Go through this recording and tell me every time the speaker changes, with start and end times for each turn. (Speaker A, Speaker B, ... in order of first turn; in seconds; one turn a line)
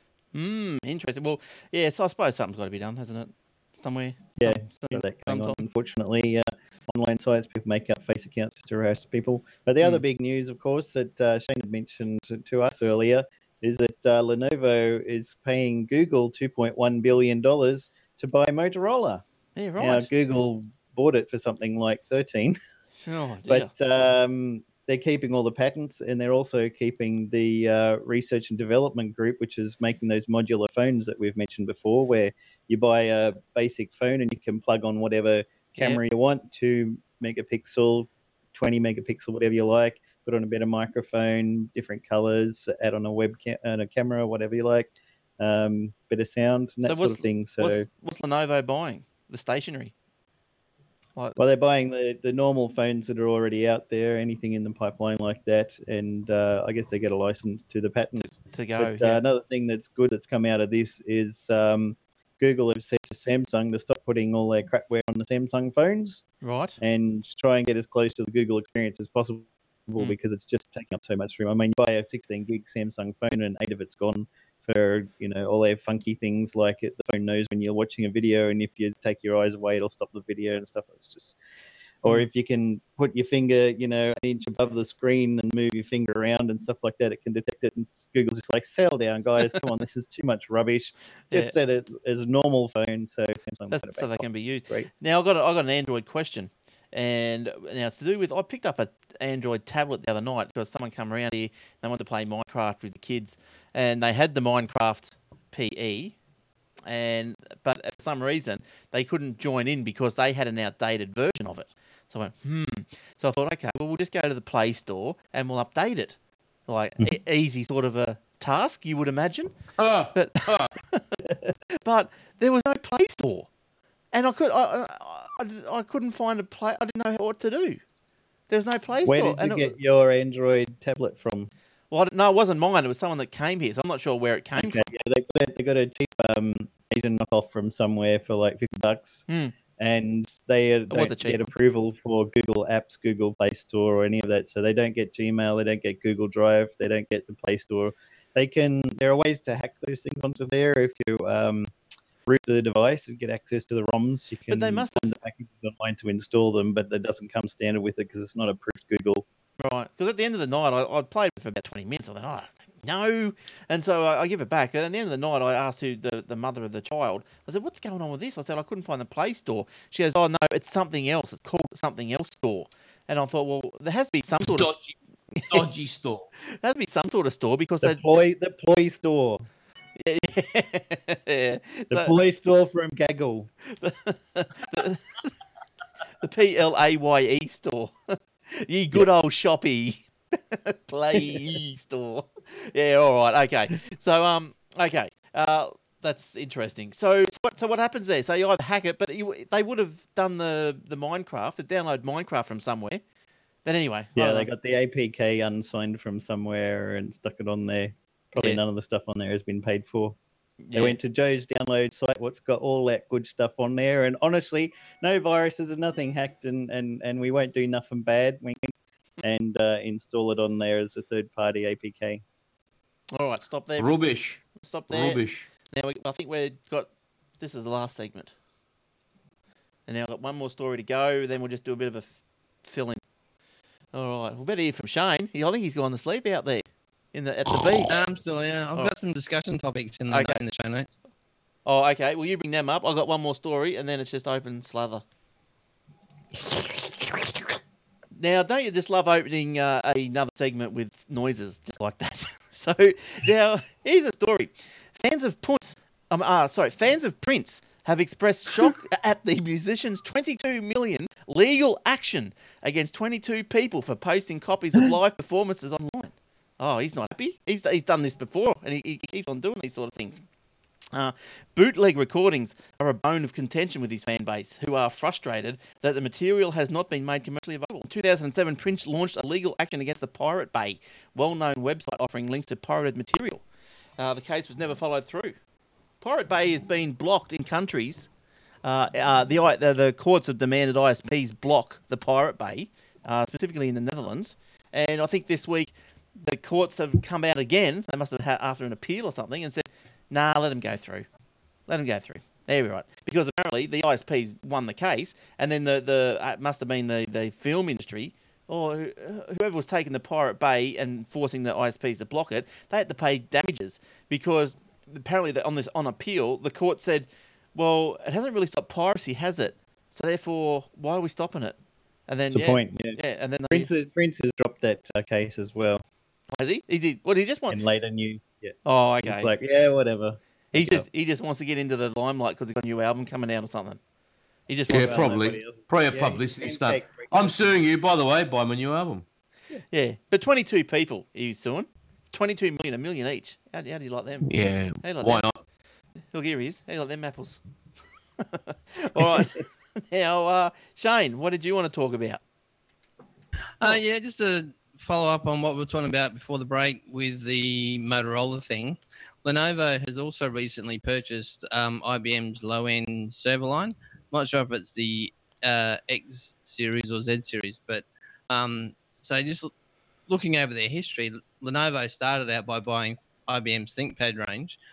Speaker A: 0.3-5.6
Speaker B: 4.4-19.2
Speaker A: 19.6-20.1
Speaker B: 19.8-22.6
Speaker A: 23.1-23.7
Speaker B: 23.5-47.9
Speaker A: 35.7-36.0
Speaker A: 46.8-49.9
Speaker B: 51.4-66.2
Speaker A: 58.2-59.2
Speaker A: 66.4-66.8
Speaker B: 66.8-81.4
Speaker B: 82.0-94.9
Speaker A: 93.7-106.2
Speaker A: 106.9-119.6
Speaker C: 119.8-120.7
Speaker A: 120.1-123.5
Speaker A: 124.1-127.8
Speaker A: 128.5-129.8
Speaker B: 129.1-131.5
Speaker A: 131.9-134.9
Speaker B: 134.6-139.3
Speaker A: 139.3-139.5
Speaker B: 139.8-151.7
Speaker A: 140.9-141.4
Speaker B: 152.3-159.2
Speaker A: 154.5-155.0
Speaker A: 159.6-174.8
Speaker C: 174.4-175.0
Speaker A: 175.3-175.7
Speaker C: 175.5-176.3
Speaker A: 176.5-178.0
Speaker B: 177.8-179.4
Speaker A: 180.0-182.2
Speaker B: 181.9-183.5
Speaker A: 183.7-185.3
Speaker A: 186.2-203.0
Speaker A: 203.7-204.5
Speaker B: 204.2-210.2
Speaker A: 210.7-211.0
Speaker B: 210.7-222.2
Speaker A: 223.1-226.9
Speaker C: 223.8-225.5
Speaker A: 227.4-228.3
Speaker A: 229.9-233.0
Speaker A: 233.9-238.0
Speaker D: 237.8-240.9
Speaker A: 240.1-240.4
Speaker A: 241.7-245.0
Speaker A: 248.2-270.2
Speaker A: 270.9-283.4
Speaker A: 284.0-285.4
Speaker A: 286.0-288.1
Speaker A: 288.6-301.1
Speaker A: 301.7-323.7
Speaker B: 322.3-323.0
Speaker B: 323.5-325.8
Speaker A: 326.3-327.6
Speaker B: 327.5-330.9
Speaker A: 328.6-329.3
Speaker A: 330.5-333.8
Speaker A: 334.5-335.2
Speaker B: 334.7-337.5
Speaker C: 334.7-339.1
Speaker A: 339.7-345.2
Speaker C: 344.2-345.4
Speaker A: 346.1-347.4
Speaker A: 348.2-352.2
Speaker D: 353.6-369.5
Speaker D: 370.1-374.6